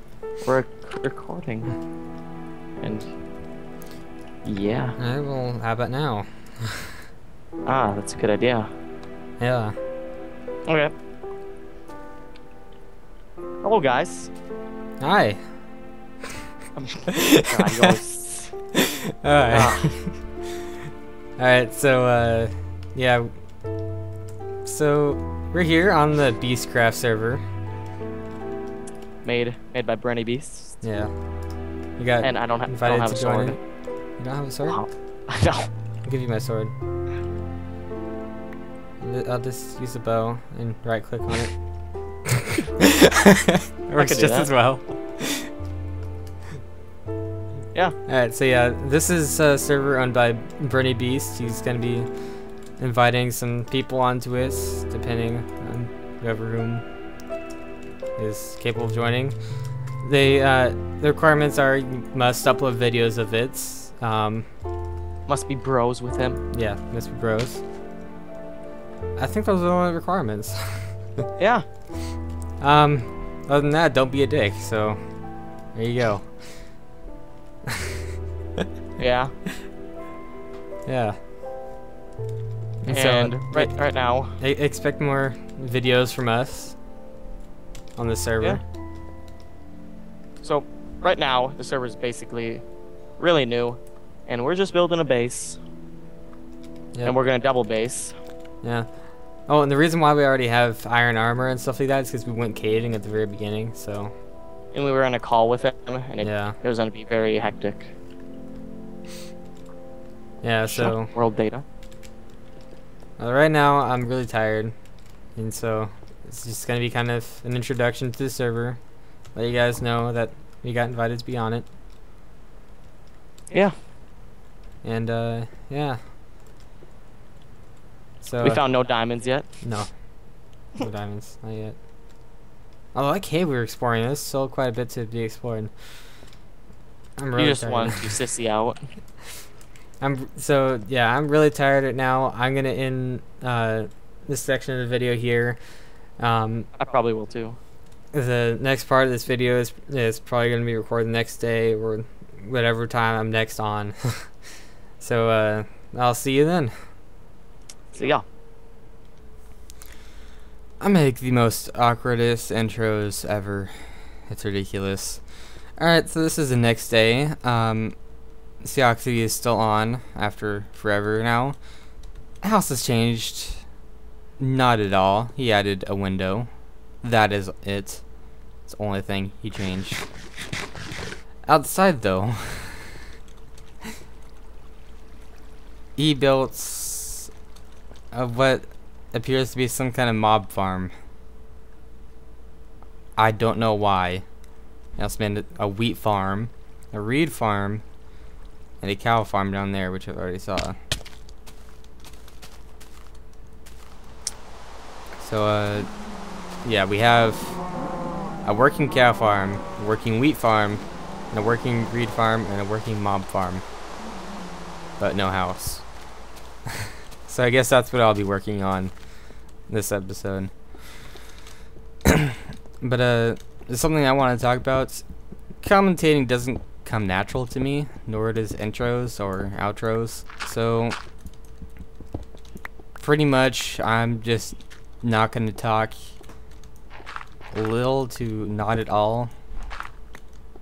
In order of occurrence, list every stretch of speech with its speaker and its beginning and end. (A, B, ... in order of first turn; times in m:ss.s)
0:00.4-0:01.7 A
0:02.8-0:03.1 A
0:04.4-0:05.0 A
0:05.0-0:07.0 B
0:07.7-0:08.7 A
0:09.4-0:09.8 B
0:10.7-0:10.9 A
0:13.6-0:14.3 A
0:15.0-0:15.4 B
0:16.8-0:18.5 A
0:17.1-0:17.9 B
0:18.7-0:20.6 B
0:19.5-0:19.9 A
0:21.4-0:23.3 B
0:24.6-0:27.4 B
0:29.2-0:30.8 A
0:30.8-0:31.1 B
0:32.0-0:33.6 B
0:32.2-0:33.6 A
0:34.2-0:34.8 B
0:34.7-0:35.7 A
0:36.0-0:36.7 B
0:39.0-0:41.6 B
0:42.4-0:45.5 B
0:44.0-0:44.5 A
0:48.1-0:56.8 B
0:58.2-1:04.5 B
1:05.3-1:06.4 A
1:06.5-1:07.6 B
1:09.2-1:11.2 B
1:11.4-1:11.7 A
1:12.6-1:15.1 B
1:15.7-1:16.7 B
1:19.0-1:19.3 A
1:20.9-1:21.2 B
1:22.8-1:23.8 B
1:22.9-1:24.4 A
1:24.4-1:26.8 B
1:28.0-1:28.6 B
1:30.4-1:32.6 A
1:33.2-1:35.6 A
1:37.0-1:38.2 A
1:38.6-1:38.9 B
1:39.5-1:44.1 B
1:44.7-1:47.9 A
1:46.2-1:46.6 B
1:50.4-1:51.1 B
1:50.7-1:51.6 A
1:53.2-1:54.7 B
1:55.4-1:58.8 B
1:59.3-2:01.7 B
2:04.8-2:06.0 B
2:08.2-2:08.6 B
2:08.4-2:09.5 A
2:09.6-2:09.9 B
2:10.8-2:11.8 B
2:12.9-2:15.8 B
2:17.2-2:18.2 B
2:17.4-2:18.8 A
2:20.0-2:25.6 B
2:26.2-2:26.7 B
2:26.8-2:27.6 A
2:28.1-2:36.9 B
2:37.9-2:38.2 A
2:40.8-2:48.0 B
2:48.6-2:51.6 B
2:52.4-2:53.6 B
2:54.4-2:56.5 B
2:57.0-2:58.0 B
2:58.7-3:00.0 B
3:01.5-3:03.0 B
3:06.0-3:07.3 B
3:08.1-3:10.9 B
3:13.2-3:14.2 B
3:15.0-3:17.8 B
3:18.8-3:20.8 B
3:25.2-3:25.9 B
3:26.6-3:27.6 B
3:28.4-3:33.6 B
3:35.0-3:35.9 B
3:37.2-3:39.0 B
3:39.7-3:41.2 B
3:42.1-3:45.0 B
3:45.6-3:51.0 B
3:53.0-3:56.2 B
3:57.5-3:59.3 B